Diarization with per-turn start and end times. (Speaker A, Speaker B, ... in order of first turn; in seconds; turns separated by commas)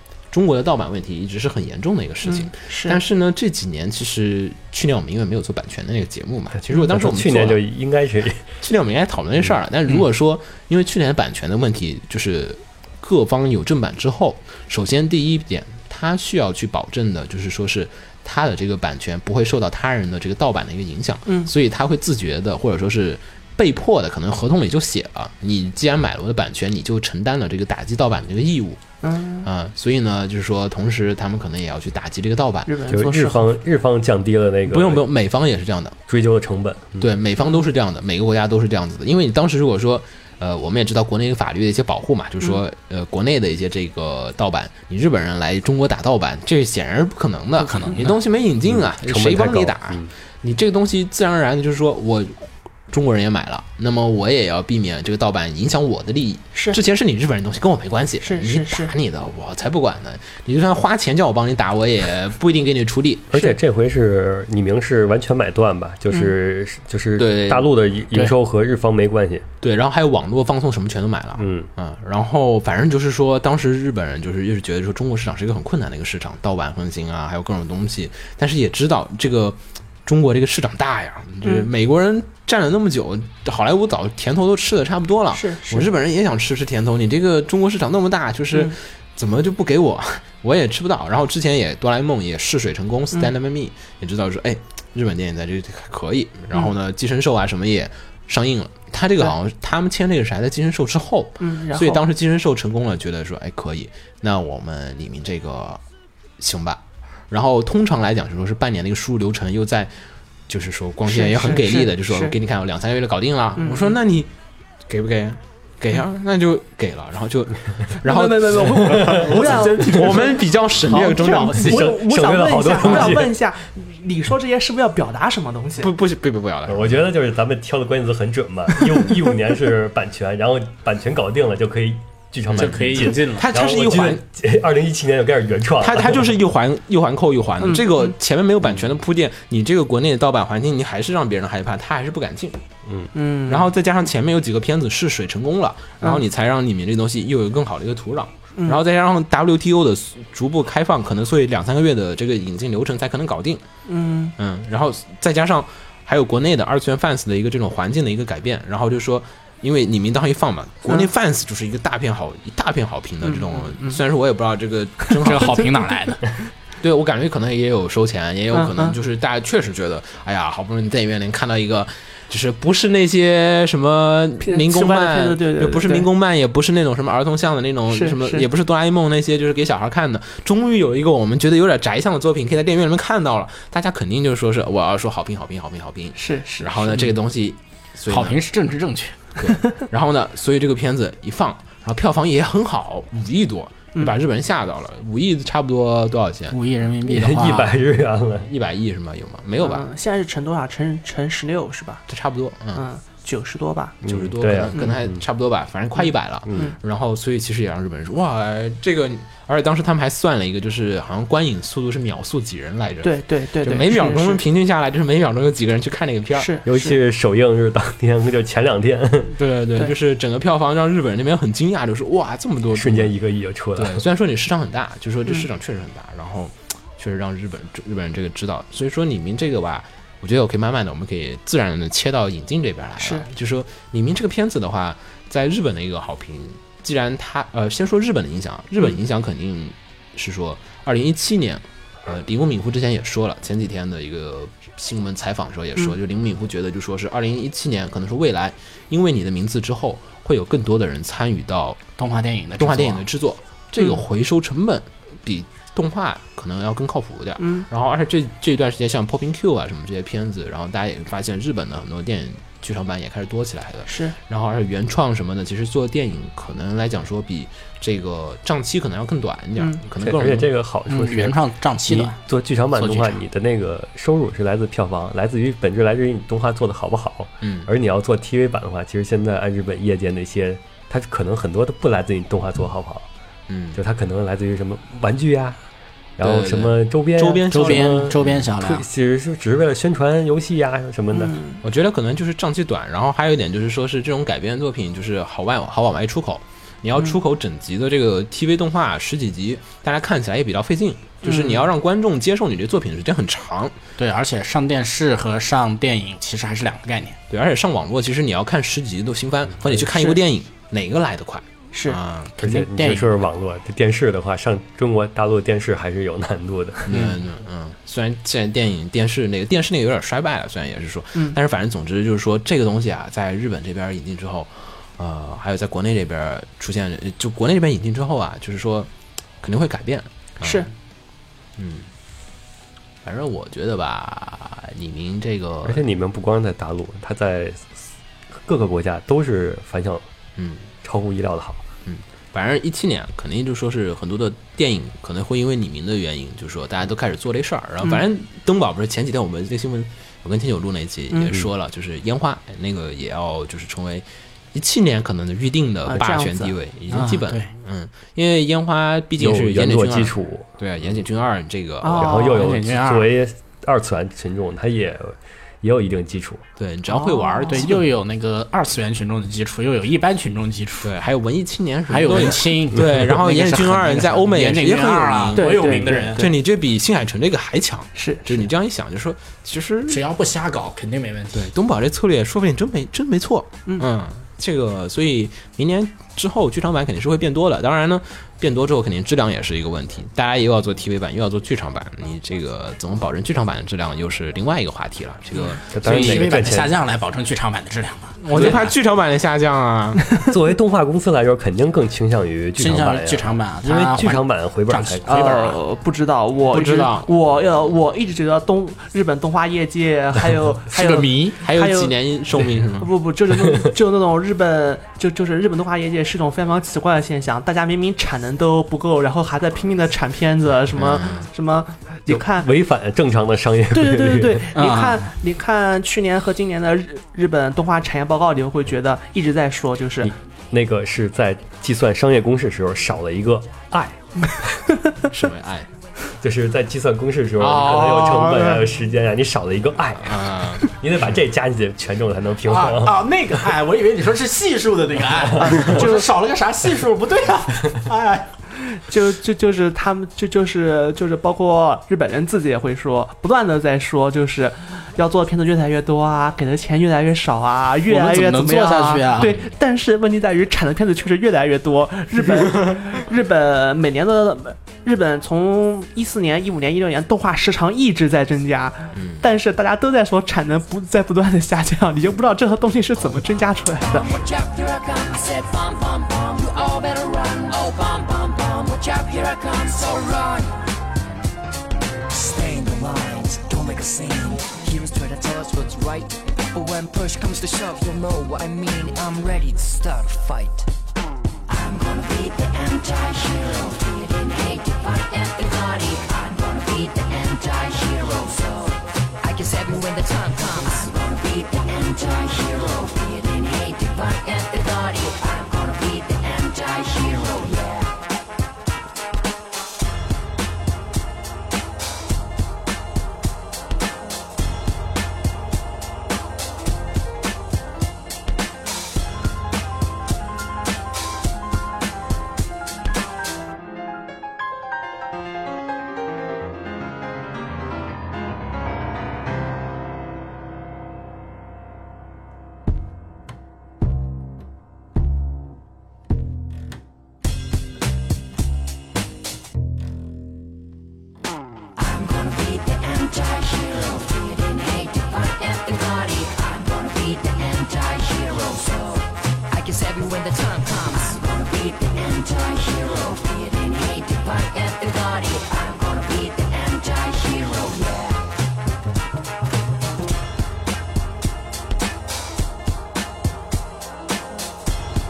Speaker A: 0.3-7.6, Speaker B: 2.2-3.0, Speaker C: 6.6-8.4, Speaker A: 8.6-28.8, Speaker B: 21.3-21.5, Speaker B: 29.0-29.5, Speaker A: 29.4-32.7, Speaker B: 32.7-33.5, Speaker C: 32.9-35.1, Speaker A: 34.7-36.0, Speaker C: 36.1-37.0, Speaker A: 37.0-63.3, Speaker D: 47.6-48.2, Speaker C: 48.7-50.1, Speaker B: 58.2-58.9, Speaker C: 63.3-69.5, Speaker A: 67.2-67.7, Speaker A: 69.6-105.8, Speaker C: 71.4-71.7, Speaker B: 85.3-85.9, Speaker B: 101.4-102.0, Speaker A: 106.4-109.9, Speaker A: 110.5-114.3, Speaker B: 111.1-112.3, Speaker B: 113.6-114.0, Speaker A: 114.9-121.9, Speaker B: 118.0-125.9, Speaker C: 119.0-119.4, Speaker D: 119.6-120.0, Speaker C: 121.6-123.3, Speaker A: 125.8-127.0, Speaker C: 126.7-136.3, Speaker A: 132.5-134.2, Speaker D: 132.6-133.5, Speaker A: 135.8-142.6, Speaker B: 137.6-138.1, Speaker B: 143.1-143.7, Speaker A: 143.5-153.6, Speaker B: 153.9-154.3, Speaker A: 154.4-165.7, Speaker B: 163.2-164.0, Speaker B: 165.1-165.7, Speaker D: 165.2-166.3, Speaker A: 166.8-188.4, Speaker B: 168.5-169.0, Speaker B: 174.4-176.1, Speaker B: 177.9-178.5, Speaker B: 186.2-187.1, Speaker D: 188.1-189.2, Speaker A: 189.4-196.6, Speaker D: 196.5-197.8, Speaker C: 197.1-198.5, Speaker A: 198.4-199.8, Speaker B: 199.6-202.1, Speaker A: 202.1-202.8, Speaker B: 202.8-204.0, Speaker C: 204.0-205.2, Speaker A: 204.1-216.5, Speaker C: 206.5-206.7, Speaker B: 213.0-214.4, Speaker B: 216.3-217.0, Speaker C: 216.7-219.4, Speaker A: 219.4-223.1, Speaker C: 222.7-224.0, Speaker A: 223.8-251.8, Speaker B: 233.0-233.3, Speaker D: 252.0-253.1, Speaker A: 252.6-270.5, Speaker B: 257.4-257.7, Speaker B: 263.9-264.2, Speaker B: 269.6-269.8, Speaker C: 270.0-283.1, Speaker D: 270.9-272.2, Speaker D: 272.7-273.2, Speaker A: 277.4-277.7, Speaker A: 283.5-283.8, Speaker C: 283.8-285.6, Speaker C: 286.2-291.4, Speaker A: 286.2-288.5, Speaker D: 287.5-288.9, Speaker B: 291.1-291.6, Speaker A: 291.6-303.8, Speaker B: 301.2-301.6, Speaker D: 304.0-307.2, Speaker A: 307.3-312.3, Speaker B: 309.9-310.2, Speaker B: 311.7-312.0, Speaker D: 312.4-313.2, Speaker C: 312.4-317.1, Speaker A: 316.9-328.9, Speaker A: 329.4-330.7, Speaker B: 330.4-330.7, Speaker A: 331.6-331.9, Speaker A: 333.0-335.8, Speaker C: 335.7-337.8, Speaker C: 338.4-340.1, Speaker A: 340.4-340.7, Speaker C: 340.8-341.6, Speaker A: 341.9-362.2, Speaker B: 351.1-351.4, Speaker B: 355.9-356.6, Speaker D: 356.9-357.5, Speaker C: 359.2-360.5, Speaker B: 361.8-362.6, Speaker C: 362.0-366.4, Speaker D: 362.2-363.1, Speaker A: 366.6-367.8, Speaker B: 366.9-367.8, Speaker D: 367.4-370.9, Speaker A: 370.8-380.0, Speaker D: 371.9-376.3, Speaker B: 375.4-376.3, Speaker B: 378.0-378.5, Speaker D: 379.9-381.5, Speaker A: 381.3-396.4, Speaker C: 395.7-396.7, Speaker D: 395.8-398.7, Speaker A: 398.2-400.1, Speaker C: 400.3-405.4, Speaker D: 402.6-405.6, Speaker B: 405.1-411.9, Speaker A: 406.5-407.1, Speaker D: 410.7-411.4, Speaker A: 411.4-412.9, Speaker B: 412.8-422.5, Speaker A: 420.7-421.3, Speaker C: 422.1-424.4, Speaker B: 423.7-430.1, Speaker D: 424.5-425.1, Speaker C: 430.0-434.6, Speaker A: 435.1-435.7, Speaker C: 436.2-443.0, Speaker A: 437.4-438.3, Speaker B: 438.3-438.6, Speaker A: 440.0-441.2, Speaker D: 442.4-448.3, Speaker B: 445.4-446.1, Speaker B: 448.7-474.1, Speaker D: 457.9-459.4, Speaker A: 468.9-469.2, Speaker E: 473.8-480.6, Speaker E: 482.1-490.7, Speaker E: 491.5-507.9, Speaker E: 541.8-558.2